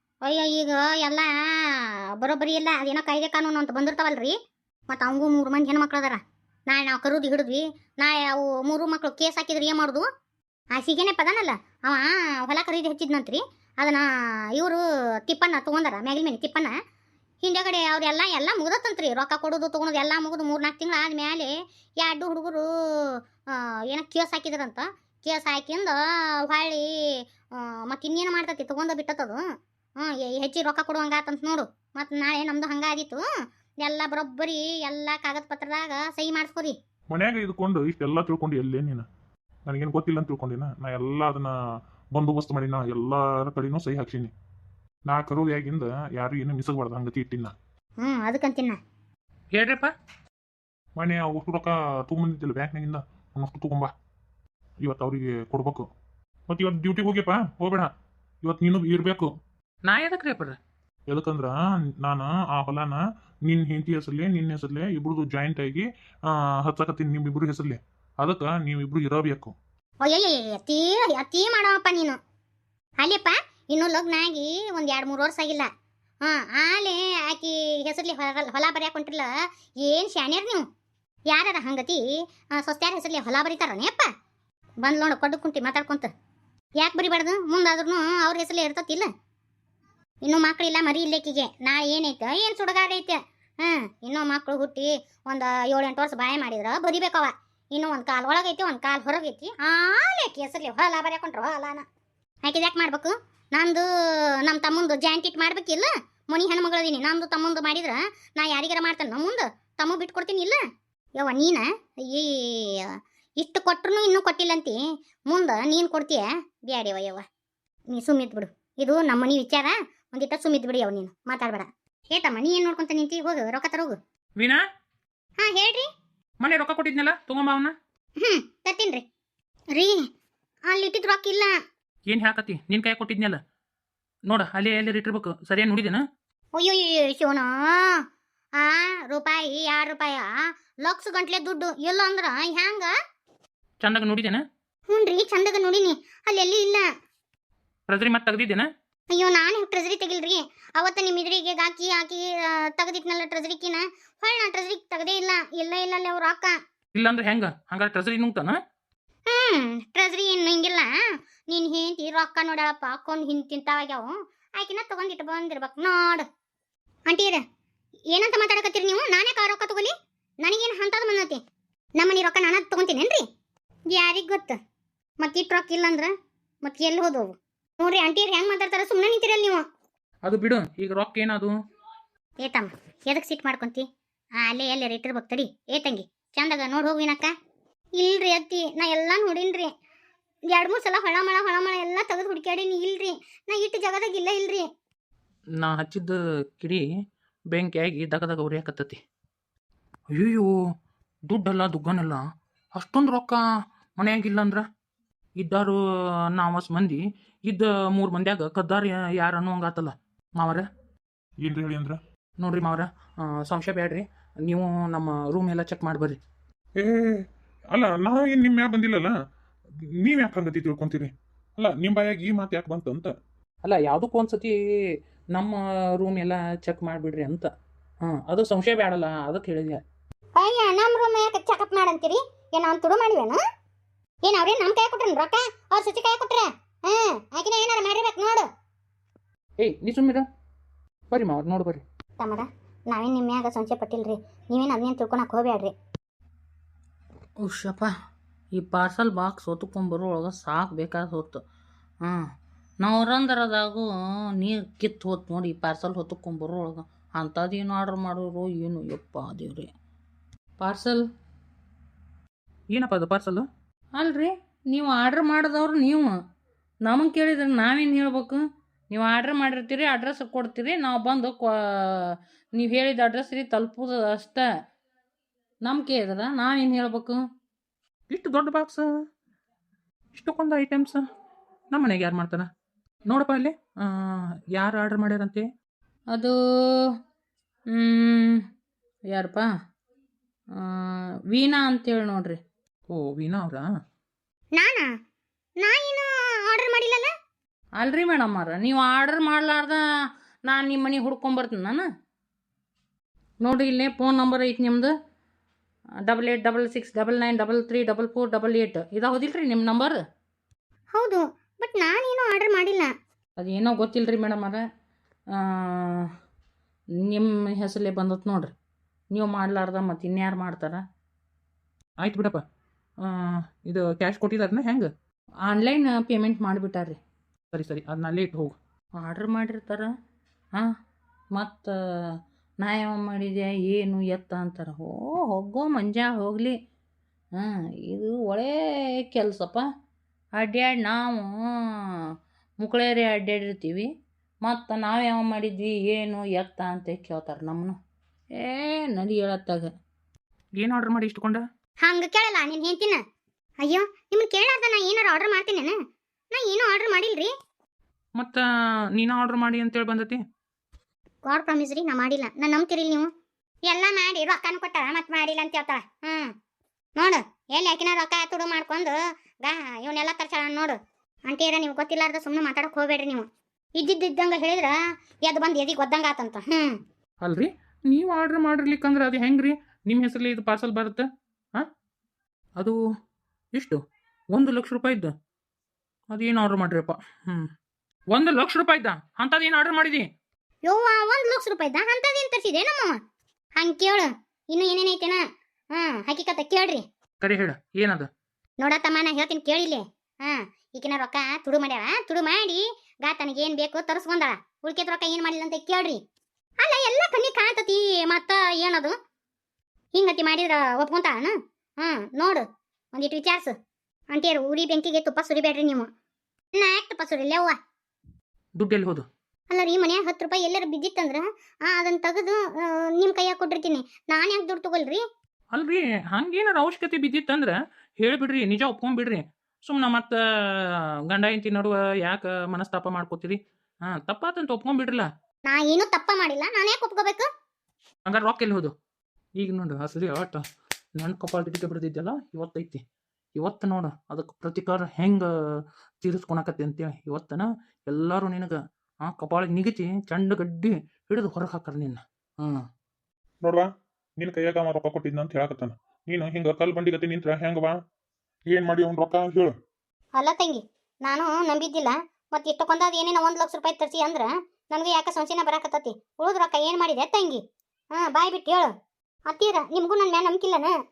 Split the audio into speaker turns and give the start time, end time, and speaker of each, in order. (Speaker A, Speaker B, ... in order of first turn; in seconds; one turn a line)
Speaker A: 0.2-4.4
Speaker A: 4.9-10.1
Speaker A: 10.8-16.7
Speaker A: 17.4-29.4
Speaker A: 30.0-33.3
Speaker A: 33.8-36.8
Speaker B: 37.1-39.1
Speaker B: 39.7-41.5
Speaker B: 42.1-44.3
Speaker B: 45.1-47.5
Speaker A: 48.0-48.8
Speaker C: 49.5-49.9
Speaker B: 51.0-53.9
Speaker B: 54.8-55.9
Speaker B: 56.5-57.9
Speaker B: 58.5-59.3
Speaker C: 59.9-60.6
Speaker B: 61.1-69.6
Speaker A: 70.0-72.2
Speaker A: 73.0-75.7
Speaker A: 76.2-79.3
Speaker A: 79.8-80.7
Speaker A: 81.3-84.1
Speaker A: 84.8-86.1
Speaker A: 86.8-89.1
Speaker A: 90.2-101.9
Speaker A: 102.4-110.6
Speaker A: 111.2-117.2
Speaker A: 117.9-124.0
Speaker A: 125.4-125.9
Speaker C: 126.4-127.8
Speaker A: 128.2-129.1
Speaker A: 129.7-130.1
Speaker A: 130.7-131.6
Speaker C: 132.1-133.4
Speaker C: 134.3-136.0
Speaker A: 136.6-138.0
Speaker A: 138.6-142.9
Speaker C: 143.8-144.4
Speaker A: 144.9-146.9
Speaker C: 147.9-148.7
Speaker A: 149.1-156.6
Speaker C: 156.9-158.6
Speaker A: 159.3-166.3
Speaker A: 167.1-167.4
Speaker A: 168.1-171.4
Speaker A: 172.0-173.2
Speaker A: 173.9-174.6
Speaker A: 175.2-176.1
Speaker A: 176.6-179.7
Speaker C: 180.2-181.6
Speaker A: 182.4-183.9
Speaker A: 184.4-187.3
Speaker A: 188.0-189.7
Speaker A: 190.5-194.7
Speaker C: 195.6-196.8
Speaker C: 197.5-199.0
Speaker C: 200.1-200.5
Speaker C: 201.3-202.2
Speaker C: 202.8-203.4
Speaker C: 204.0-204.7
Speaker C: 205.4-205.8
Speaker C: 206.3-210.7
Speaker B: 211.4-212.0
Speaker C: 212.4-216.2
Speaker B: 216.8-219.1
Speaker B: 219.8-223.1
Speaker C: 223.6-227.5
Speaker C: 228.0-229.8
Speaker A: 230.4-233.4
Speaker A: 234.3-238.5
Speaker C: 239.6-240.3
Speaker C: 241.1-241.8
Speaker A: 242.2-245.7
Speaker D: 247.4-247.9
Speaker D: 248.6-251.4
Speaker D: 252.8-259.7
Speaker D: 260.6-261.1
Speaker C: 262.7-263.5
Speaker D: 264.0-266.1
Speaker D: 266.9-274.5
Speaker D: 275.6-277.2
Speaker C: 278.1-278.9
Speaker C: 280.1-281.0
Speaker C: 281.7-282.5
Speaker C: 283.1-285.4
Speaker D: 287.8-288.4
Speaker D: 289.1-289.5
Speaker D: 290.6-292.4
Speaker C: 292.9-293.6
Speaker A: 294.6-294.9
Speaker A: 295.6-297.1
Speaker D: 297.8-299.8
Speaker D: 300.4-301.8
Speaker D: 303.4-304.9
Speaker C: 303.7-304.1
Speaker D: 306.1-310.0
Speaker A: 310.9-312.9
Speaker D: 313.4-314.6
Speaker C: 313.6-314.4
Speaker D: 317.0-318.5
Speaker D: 319.1-320.8
Speaker C: 322.0-322.4
Speaker C: 323.0-324.9
Speaker D: 325.5-327.0
Speaker C: 327.5-328.6
Speaker D: 329.0-329.9
Speaker D: 331.4-331.7
Speaker D: 332.6-336.6
Speaker D: 337.4-339.6
Speaker D: 340.4-341.4
Speaker D: 342.6-343.9
Speaker D: 344.5-347.8
Speaker D: 348.4-349.7
Speaker C: 350.6-351.4
Speaker A: 351.8-353.0
Speaker A: 353.6-355.8
Speaker A: 356.3-357.3
Speaker C: 358.2-360.2
Speaker A: 361.2-363.1
Speaker A: 363.7-366.3
Speaker A: 367.0-370.8
Speaker A: 371.3-376.8
Speaker C: 377.2-381.7
Speaker C: 384.3-385.1
Speaker C: 386.1-387.5
Speaker C: 388.1-390.1
Speaker A: 390.6-393.0
Speaker A: 393.6-395.2
Speaker A: 395.7-396.9
Speaker C: 397.2-398.1
Speaker A: 398.6-406.0
Speaker A: 406.6-408.9
Speaker A: 409.9-413.5
Speaker A: 414.1-415.9
Speaker A: 416.5-417.6
Speaker C: 418.6-419.1
Speaker A: 419.5-425.0
Speaker C: 425.5-435.1
Speaker A: 435.5-437.3
Speaker C: 438.1-438.7
Speaker C: 439.4-440.4
Speaker C: 441.0-442.8
Speaker C: 443.4-452.6
Speaker B: 454.2-457.8
Speaker B: 458.5-459.6
Speaker A: 460.2-467.4
Speaker A: 467.9-468.7
Speaker A: 469.3-470.7